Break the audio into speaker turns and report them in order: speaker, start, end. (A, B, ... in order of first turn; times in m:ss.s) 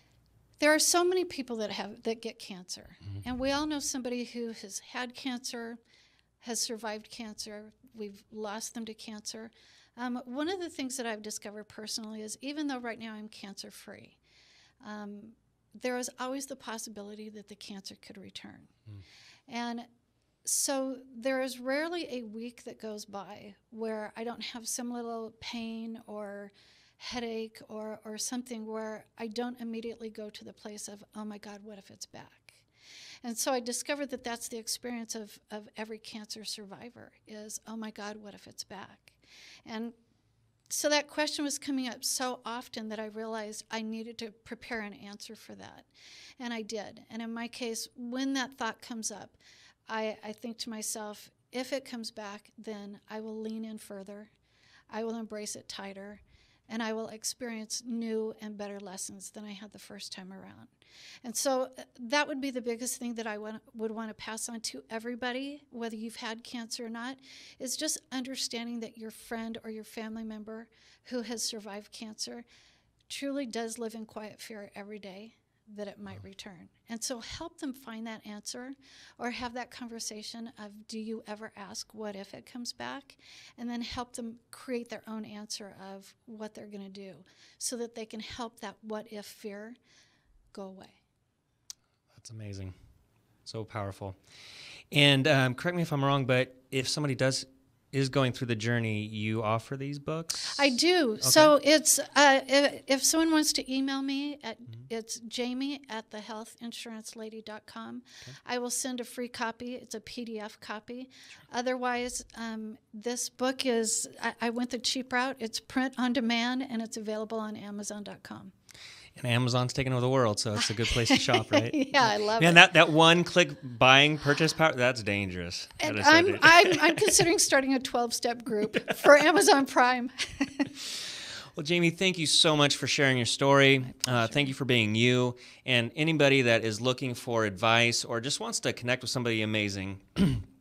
0:00.6-0:05.8 A
0:06.4-0:14.2 A
0:14.8-0:18.7 A
0:19.5-0:19.9 A
0:20.4-0:32.6 A
0:33.2-0:39.9 A
0:40.7-0:54.3 A
0:54.9-1:00.7 A
1:01.2-1:12.4 A
1:13.1-1:29.8 A
1:30.5-1:31.0 A
1:32.1-1:32.7 B
1:33.4-1:34.2 B
1:34.9-1:41.5 B
1:40.5-1:58.5 A
1:59.2-2:07.1 B
2:00.6-2:02.6 A
2:05.8-2:10.7 A
2:11.5-2:20.4 B
2:13.8-2:14.5 A